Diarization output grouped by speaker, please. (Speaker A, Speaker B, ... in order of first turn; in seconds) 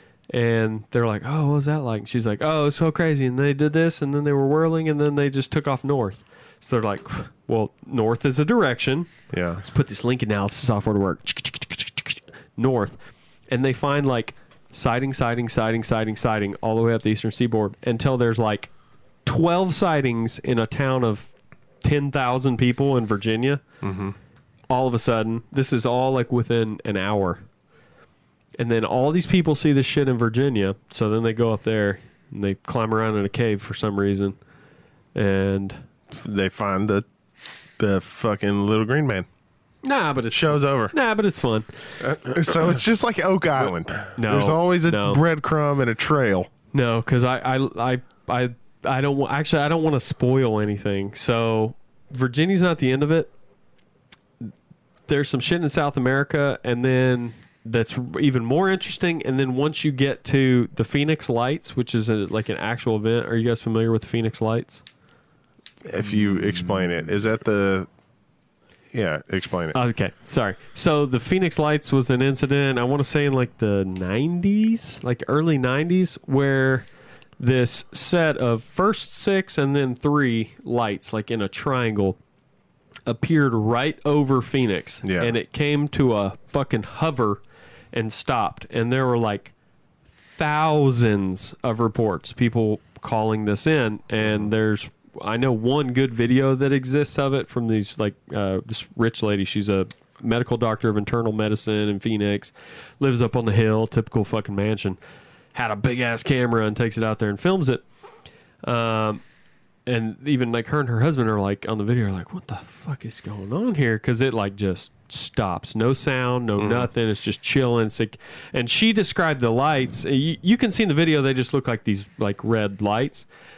Speaker A: 0.3-13.0, 13.5-18.7, 19.2-21.3, 21.8-23.6, 24.7-27.4, 28.6-34.4, 35.1-35.8, 39.8-41.7, 44.1-45.2, 46.7-53.3, 55.1-64.8, 69.7-76.9, 77.4-82.2, 83.0-87.4, 87.9-89.5, 90.1-105.0, 105.5-107.8, 108.6-109.2, 109.8-123.2
Speaker B: 9.3-9.6, 23.8-24.1, 36.1-37.0, 37.8-39.3, 40.3-40.9, 42.0-46.5, 65.8-67.9, 68.9-69.8, 85.0-85.3, 94.2-94.5, 116.6-116.9